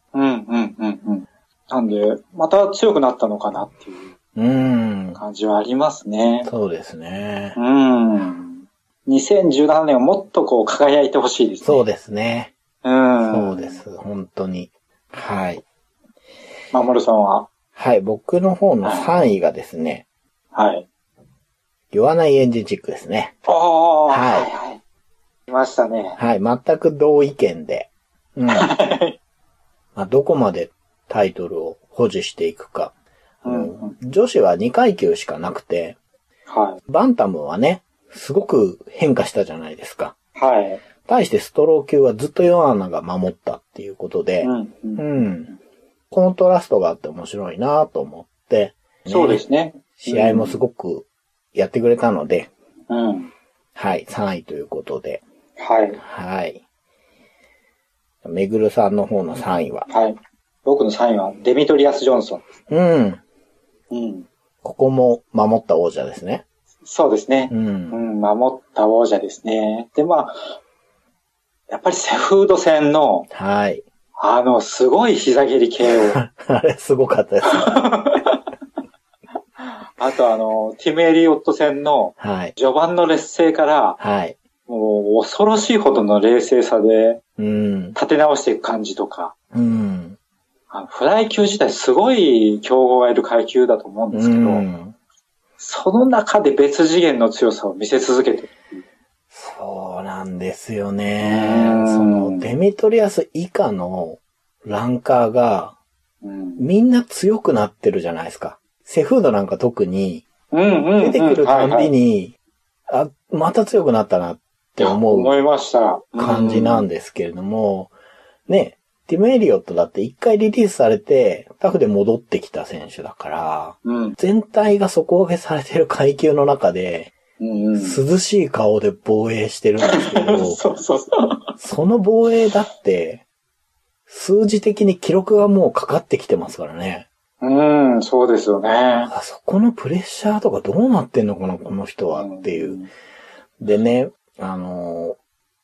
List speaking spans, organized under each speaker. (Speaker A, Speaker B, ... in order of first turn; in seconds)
Speaker A: 0.1-4.1, 5.2-6.5, 7.5-11.8, 12.8-13.8, 16.7-17.5, 18.8-19.1, 20.5-20.9, 23.4-24.8, 25.5-26.2, 28.5-29.2, 33.4-33.9, 36.5-36.8, 40.4-40.8, 44.4-45.0, 49.1-50.6, 52.9-53.3, 55.6-56.0, 59.9-62.5, 63.9-64.3, 66.8-70.6, 71.7-73.3, 74.2-76.2, 77.5-78.4, 79.6-84.0, 84.7-87.2, 88.0-89.3, 90.7-94.6, 95.6-98.8, 101.2-102.5, 106.2-106.6, 110.5-111.9, 114.8-116.8, 123.8-124.2, 127.4-128.0, 129.8-131.5, 137.4-139.1, 142.2-142.9
Speaker B: 4.3-5.2, 6.4-7.6, 11.6-12.5, 13.2-15.6, 17.8-20.0, 21.9-23.3, 24.1-24.5, 26.2-28.7, 29.9-32.9, 33.4-36.0, 36.9-40.1, 41.0-45.5, 46.1-52.5, 53.7-55.2, 56.0-56.6, 58.2-59.9, 62.7-63.2, 64.6-66.4, 67.5-68.0, 73.3-73.8, 75.8-77.8, 82.2-82.5, 84.0-84.4, 87.4-88.0, 89.5-90.2, 94.1-94.9, 99.3-105.8, 106.6-110.2, 111.0-112.3, 112.9-115.3, 116.2-117.9, 118.5-127.1, 127.8-130.6, 131.6-133.2, 134.1-137.1, 139.1-142.8, 143.6-145.2